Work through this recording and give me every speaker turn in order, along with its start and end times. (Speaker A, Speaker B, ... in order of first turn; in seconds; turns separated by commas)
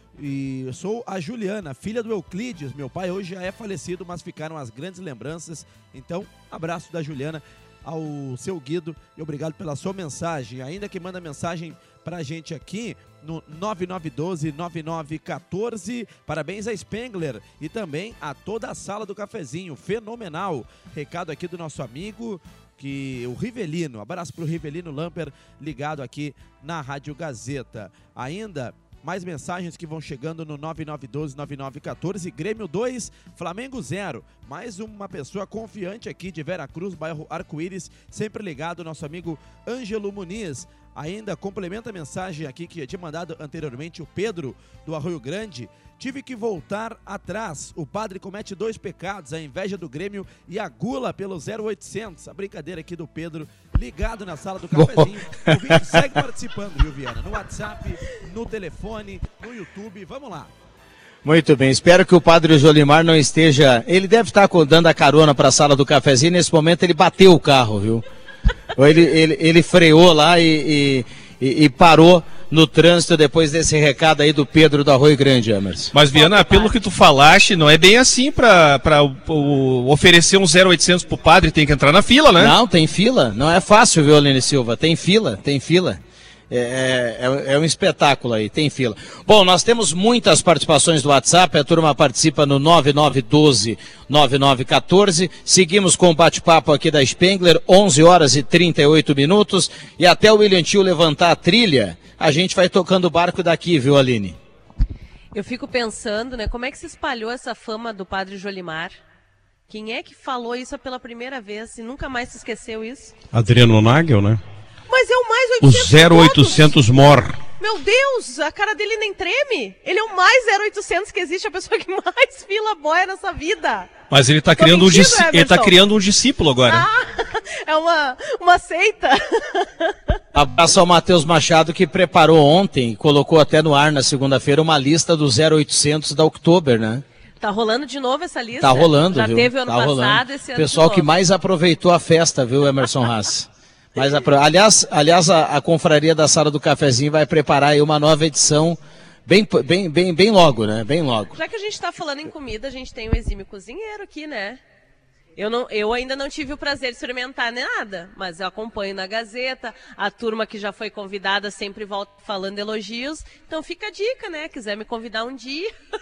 Speaker A: 0.2-60.5, Speaker B: 54.7-55.8, Speaker B: 61.2-68.0, Speaker B: 68.8-75.9, Speaker C: 75.9-82.5, Speaker D: 76.2-76.7, Speaker B: 82.4-104.4, Speaker D: 105.3-109.0, Speaker D: 109.7-113.1, Speaker E: 113.3-114.4, Speaker D: 114.9-116.7, Speaker E: 115.6-117.4, Speaker D: 117.6-123.9, Speaker C: 124.1-126.8, Speaker D: 124.6-125.8, Speaker D: 126.7-129.9, Speaker B: 130.3-137.0, Speaker D: 137.4-141.1, Speaker B: 138.6-151.4, Speaker D: 151.3-154.6, Speaker D: 155.4-165.7